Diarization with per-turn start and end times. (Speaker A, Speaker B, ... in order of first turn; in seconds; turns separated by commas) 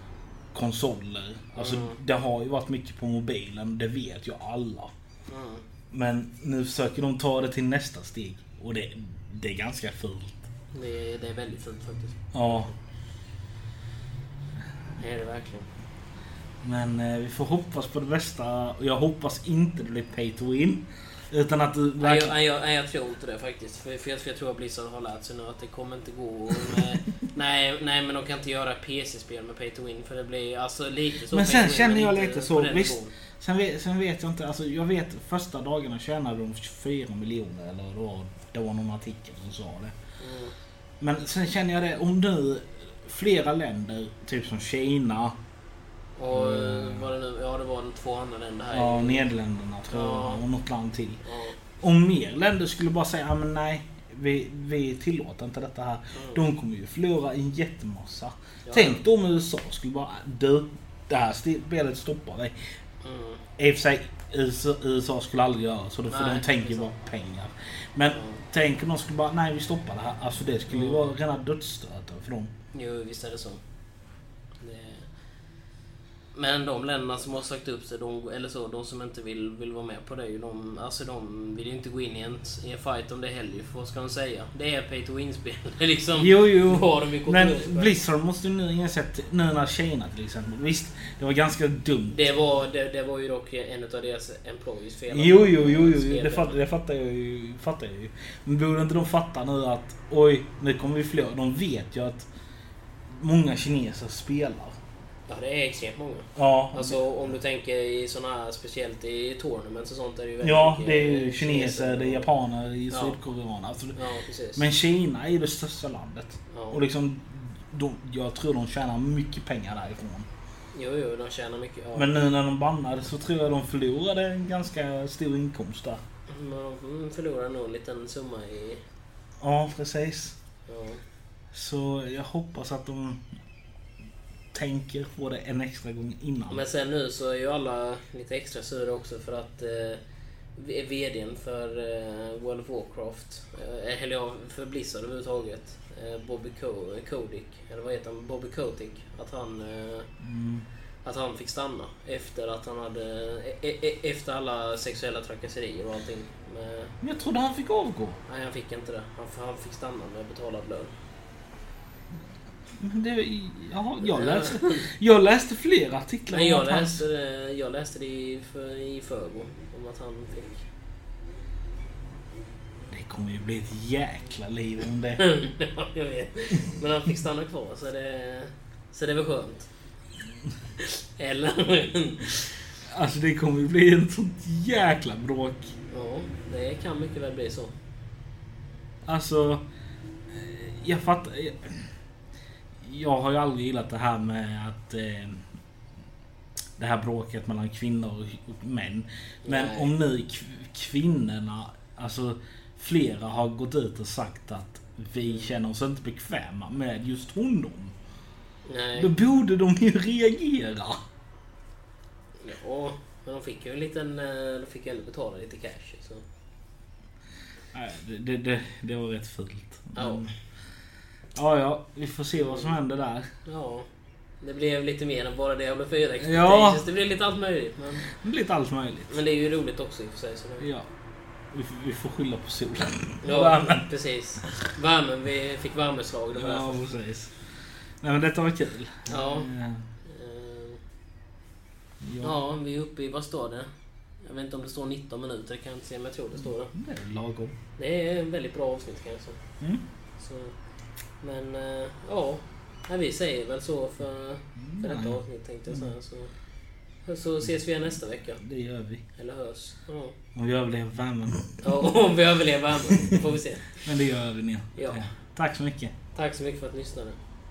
Speaker A: 0.5-4.9, Speaker B: 1.5-2.0, Speaker B: 5.3-5.6, Speaker A: 5.9-10.4, Speaker B: 10.7-12.8, Speaker A: 12.3-12.7, Speaker B: 15.0-15.7, Speaker A: 16.6-22.4, Speaker B: 22.0-33.1, Speaker A: 31.3-39.9, Speaker B: 40.2-40.5, Speaker A: 41.0-45.4, Speaker B: 46.2-49.3, Speaker A: 46.3-47.1, Speaker A: 48.7-51.2, Speaker B: 49.9-50.4, Speaker B: 51.2-51.6, Speaker A: 51.8-62.5, Speaker B: 56.1-56.4, Speaker B: 58.6-59.0, Speaker B: 63.0-63.4, Speaker A: 63.6-72.5, Speaker B: 66.1-66.9, Speaker B: 68.0-68.4, Speaker B: 70.7-71.1, Speaker B: 72.7-73.6, Speaker B: 74.6-75.1, Speaker B: 76.3-88.0, Speaker A: 86.2-92.3, Speaker B: 92.1-96.6, Speaker A: 95.1-102.3, Speaker A: 103.1-104.8, Speaker B: 105.3-112.3, Speaker A: 106.3-107.0, Speaker A: 110.4-114.0, Speaker B: 112.9-113.2, Speaker B: 113.9-114.7, Speaker A: 114.5-120.3, Speaker B: 116.5-116.8, Speaker B: 120.7-122.2, Speaker A: 121.9-126.0, Speaker B: 126.3-128.8, Speaker A: 129.4-130.3, Speaker B: 130.7-131.0, Speaker A: 131.5-133.2, Speaker A: 134.5-136.6, Speaker B: 136.5-140.0, Speaker B: 140.5-150.1, Speaker A: 150.2-150.7, Speaker B: 151.0-156.9, Speaker A: 157.0-158.2, Speaker B: 158.2-160.9, Speaker A: 162.8-167.0, Speaker B: 164.0-164.9, Speaker B: 166.3-170.7, Speaker A: 172.9-175.2, Speaker B: 175.2-179.7, Speaker B: 180.8-182.6, Speaker A: 182.9-185.7, Speaker B: 185.9-187.7, Speaker A: 189.0-189.6, Speaker A: 190.3-191.9, Speaker A: 192.8-195.5, Speaker A: 196.8-207.9, Speaker B: 199.4-199.9, Speaker B: 205.2-205.5, Speaker B: 208.6-209.1, Speaker A: 208.9-211.0, Speaker B: 212.4-216.2, Speaker A: 217.7-220.3, Speaker B: 219.9-220.3, Speaker A: 221.3-223.3, Speaker B: 222.3-222.7, Speaker B: 223.4-223.9, Speaker B: 224.4-228.1, Speaker A: 226.2-226.8, Speaker A: 228.0-229.2, Speaker B: 229.1-230.7, Speaker A: 230.6-230.8, Speaker A: 231.5-233.8, Speaker B: 233.2-236.8, Speaker A: 236.3-237.4, Speaker A: 238.0-239.8, Speaker B: 239.1-239.5, Speaker B: 240.0-240.8, Speaker A: 242.0-242.3, Speaker B: 242.2-243.7, Speaker B: 244.2-246.7, Speaker A: 246.7-247.5, Speaker B: 247.8-249.4, Speaker B: 250.2-250.5, Speaker B: 251.2-256.3, Speaker A: 254.6-255.9, Speaker B: 257.0-258.4, Speaker A: 258.4-259.0, Speaker B: 259.1-260.1, Speaker A: 260.3-261.7, Speaker B: 261.6-263.9, Speaker A: 263.8-265.9, Speaker B: 264.7-265.1, Speaker B: 266.1-267.2